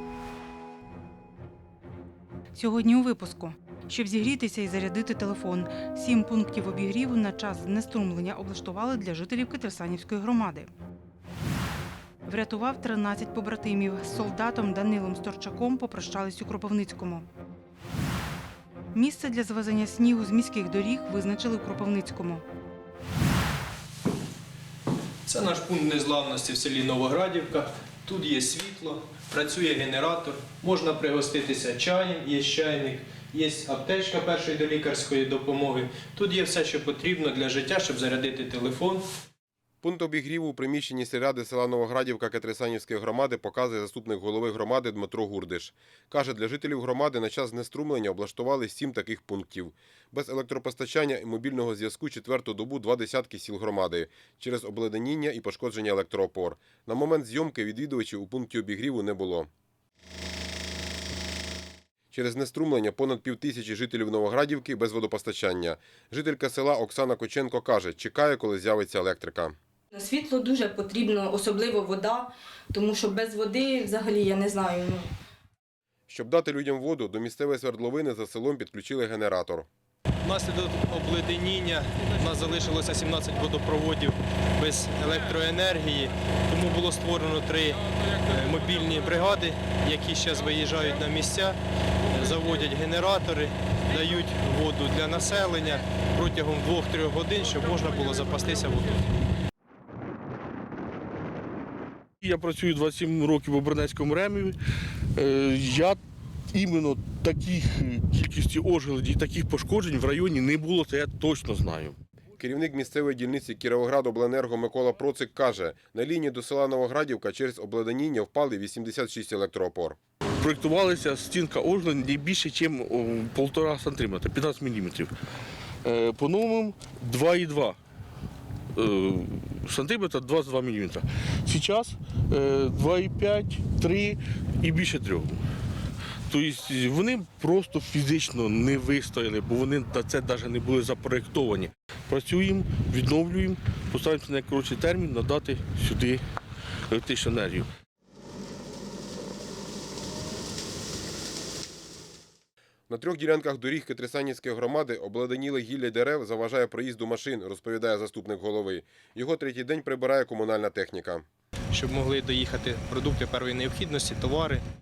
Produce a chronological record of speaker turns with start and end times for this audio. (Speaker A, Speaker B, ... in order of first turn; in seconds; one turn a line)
Speaker A: 2.5-10.7
Speaker A: 12.3-17.2
Speaker A: 18.9-22.4
Speaker B: 25.3-39.0
Speaker C: 39.8-59.5
Speaker C: 62.1-69.6
Speaker D: 69.9-75.1
Speaker C: 76.1-79.7
Speaker B: 80.2-91.6
Speaker B: 92.1-98.9
Speaker E: 102.2-104.6
Speaker E: 105.2-106.0
Speaker E: 106.5-112.0
Speaker C: 112.4-120.0
Speaker E: 120.4-125.1
Speaker E: 125.8-127.8
Speaker E: 128.8-135.4
Speaker E: 136.3-146.2
Speaker E: 146.9-147.7
Speaker C: 152.9-161.3
Speaker B: 161.7-164.7